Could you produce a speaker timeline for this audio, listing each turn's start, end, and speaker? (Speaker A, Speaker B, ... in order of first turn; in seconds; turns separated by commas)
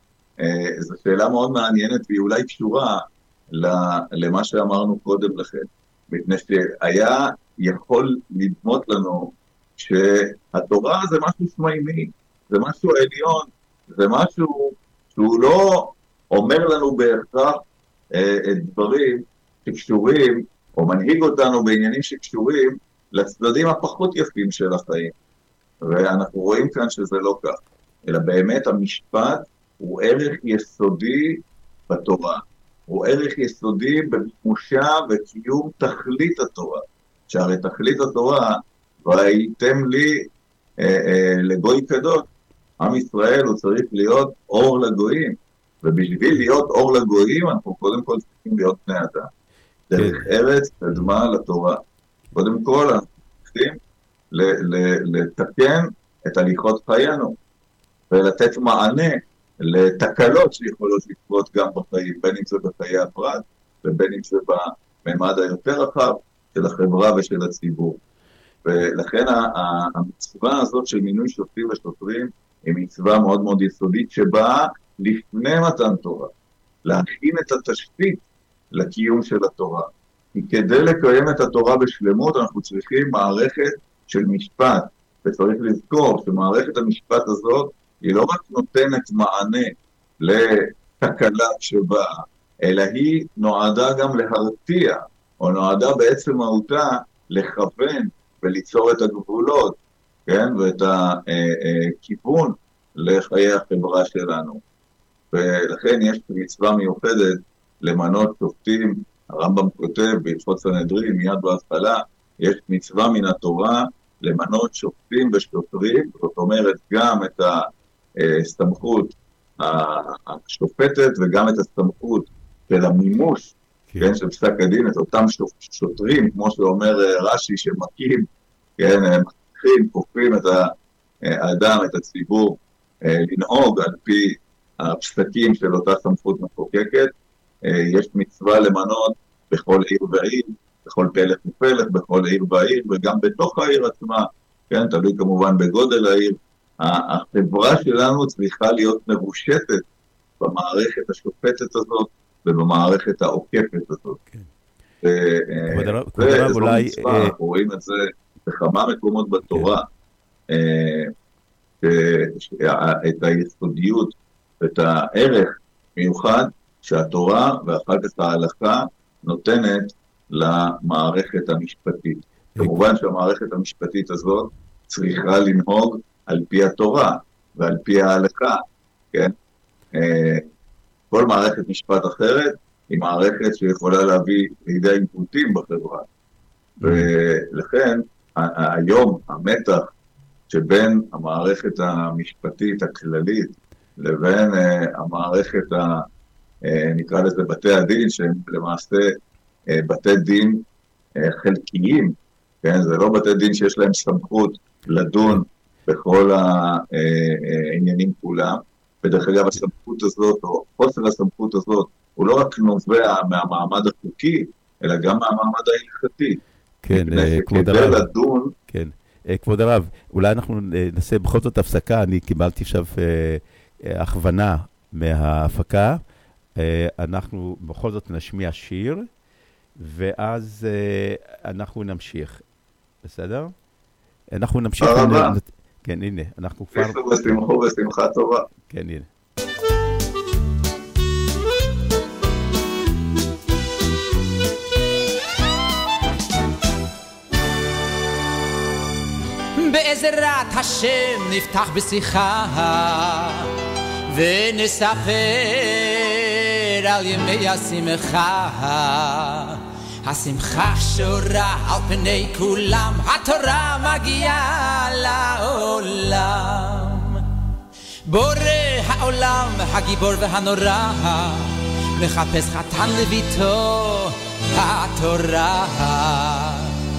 Speaker A: 0.4-25.1, Speaker A: 25.8-40.3, Speaker A: 40.8-42.2, Speaker A: 42.8-49.3, Speaker A: 49.9-51.8, Speaker B: 50.0-50.3, Speaker A: 52.3-53.8, Speaker A: 54.3-57.4, Speaker A: 58.1-68.0, Speaker A: 68.7-76.3, Speaker A: 76.8-78.2, Speaker A: 78.7-92.1, Speaker A: 92.6-104.6, Speaker A: 105.3-117.6, Speaker A: 118.2-128.3, Speaker A: 128.8-130.7, Speaker A: 131.2-137.1, Speaker A: 137.7-149.8, Speaker A: 150.4-154.2, Speaker A: 155.0-159.9, Speaker B: 155.7-157.3, Speaker A: 160.5-161.1, Speaker A: 161.8-178.6, Speaker A: 180.0-180.5, Speaker A: 181.1-186.1, Speaker B: 186.8-187.1, Speaker A: 186.8-189.9, Speaker A: 190.5-196.0, Speaker A: 196.7-199.1, Speaker A: 199.7-200.6, Speaker A: 201.2-216.4, Speaker B: 216.8-218.0, Speaker A: 216.9-218.5, Speaker B: 218.7-226.0, Speaker B: 226.6-229.1, Speaker B: 229.8-232.4, Speaker B: 233.0-233.5, Speaker B: 234.3-237.0, Speaker A: 234.8-235.4, Speaker A: 236.7-238.5, Speaker B: 238.7-239.1, Speaker C: 249.6-253.5, Speaker C: 254.1-267.2, Speaker C: 268.1-276.7